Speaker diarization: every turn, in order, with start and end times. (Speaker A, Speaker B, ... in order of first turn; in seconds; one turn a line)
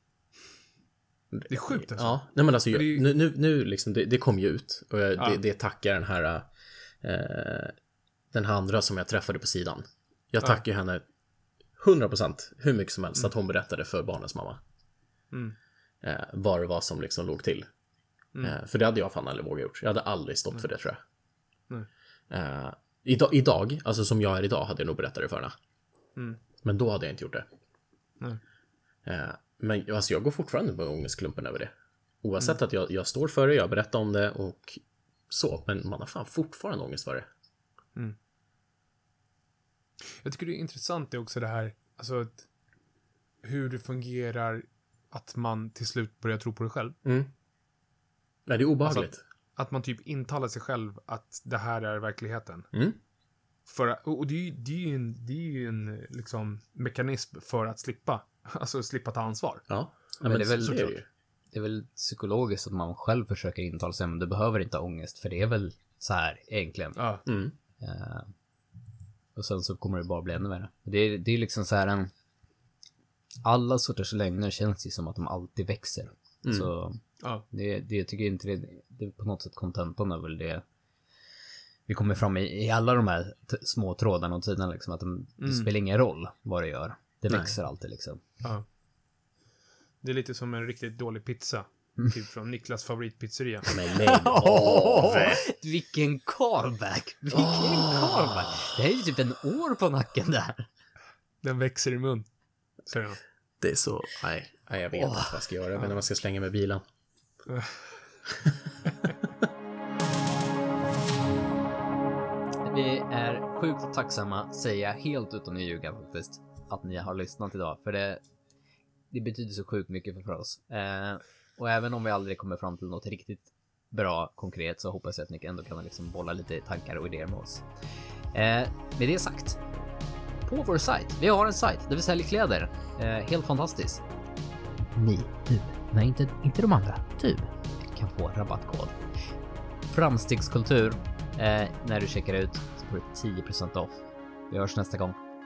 Speaker A: 1.3-6.5
Speaker B: 1.5-3.1
Speaker A: 7.0-7.7
Speaker A: 8.3-11.0
Speaker A: 11.8-14.6
Speaker A: 16.0-17.7
Speaker A: 18.4-21.0
Speaker A: 22.3-25.6
Speaker B: 26.1-26.4
Speaker A: 26.6-27.5
Speaker A: 29.0-37.2
Speaker B: 40.0-42.4
Speaker B: 43.4-47.0
Speaker A: 47.0-47.3
Speaker A: 48.5-49.2
Speaker B: 48.8-52.7
Speaker A: 52.7-53.0
Speaker B: 53.7-59.7
Speaker A: 59.7-61.0
Speaker C: 60.2-60.9
Speaker B: 60.5-61.0
Speaker C: 61.5-67.0
Speaker B: 67.0-67.2
Speaker A: 67.2-67.5
Speaker C: 67.8-68.3
Speaker C: 69.3-72.1
Speaker C: 73.4-80.6
Speaker A: 76.4-76.7
Speaker C: 81.9-88.2
Speaker B: 85.4-85.7
Speaker A: 87.3-87.5
Speaker B: 90.0-93.7
Speaker A: 93.7-95.4
Speaker C: 94.0-100.7
Speaker A: 97.3-98.2
Speaker B: 101.4-102.2
Speaker B: 102.9-103.2
Speaker A: 103.6-106.8
Speaker C: 104.9-105.4
Speaker B: 107.5-108.0
Speaker A: 108.3-108.6
Speaker C: 112.6-118.2
Speaker C: 119.1-127.6
Speaker C: 128.3-129.6
Speaker C: 130.4-134.0
Speaker C: 134.8-138.9
Speaker C: 139.9-145.2